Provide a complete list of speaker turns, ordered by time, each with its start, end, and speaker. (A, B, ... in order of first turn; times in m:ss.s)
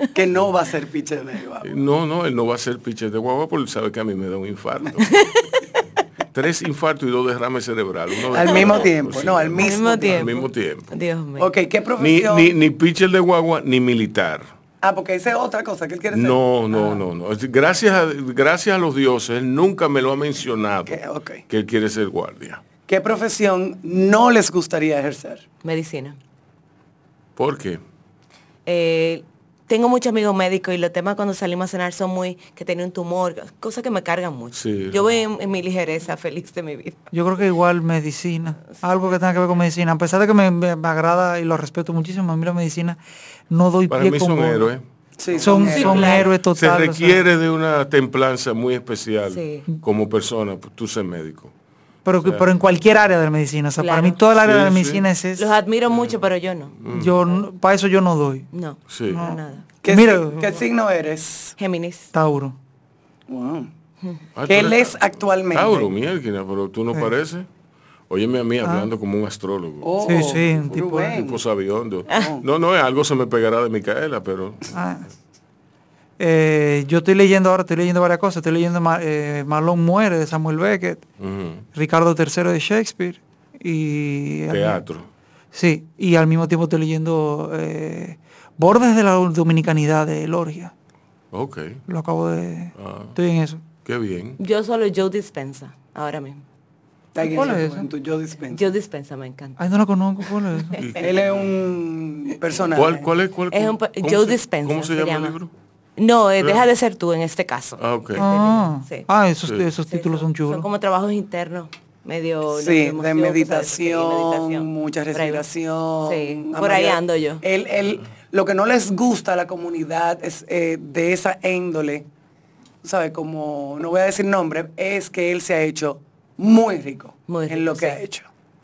0:00.1-0:01.7 A
0:01.6-0:05.2 B
0:05.1-0:05.5 C
0:06.3-0:10.9 B
0:08.3-0:10.3 A
0:08.4-0:08.8 C
0:09.6-0:11.5 C
0:11.4-0:12.5 A
0:12.0-0:14.5 B
0:14.8-0:17.0 A
0:16.1-0:22.6 B
0:20.9-0:21.4 A
0:22.9-0:25.4 A
0:25.6-0:26.2 C
0:27.4-0:27.8 B
0:28.6-0:37.0 C
0:34.5-0:35.0 B
0:37.1-0:44.7 D
0:43.9-0:44.8 B
0:45.2-0:46.2 A
0:45.4-0:46.3 C
0:45.4-0:47.2 D
0:45.8-0:51.5 B
0:49.3-0:49.6 C
0:52.0-0:55.6 D
0:52.2-0:52.5 B
0:53.8-0:54.2 C
0:54.4-0:55.0 B
0:55.4-0:56.8 C
0:55.9-0:56.2 B
0:56.8-0:57.2 B
0:56.9-0:58.5 D
0:58.5-0:59.6 C
0:58.9-0:59.3 B
0:59.1-1:00.4 D
0:59.8-1:01.6 A
1:01.6-1:02.1 C
1:02.1-1:02.5 D
1:03.3-1:03.7 A
1:04.3-1:07.5 B
1:04.5-1:05.9 A
1:08.1-1:14.7 B
1:08.6-1:08.9 D
1:09.8-1:11.4 A
1:10.0-1:11.1 D
1:12.1-1:12.4 A
1:14.7-1:15.0 D
1:16.2-1:21.0 D
1:21.2-1:21.6 B
1:21.7-1:24.8 D
1:24.5-1:25.1 B
1:25.5-1:30.7 D
1:31.3-1:31.8 B
1:31.9-1:33.6 D
1:32.8-1:33.2 B
1:33.8-1:34.4 B
1:34.4-1:36.4 C
1:37.1-1:38.7 A
1:37.2-1:37.9 D
1:38.5-1:39.6 C
1:39.6-1:40.8 D
1:40.7-1:41.0 C
1:40.8-1:41.1 B
1:41.0-1:43.1 A
1:42.7-1:45.5 B
1:43.5-1:45.4 C
1:46.0-1:49.1 C
1:47.8-1:48.2 B
1:48.2-1:50.6 D
1:49.9-1:55.4 C
1:52.5-2:02.0 A
1:56.0-1:57.4 C
2:02.8-2:08.3 A
2:07.3-2:08.0 C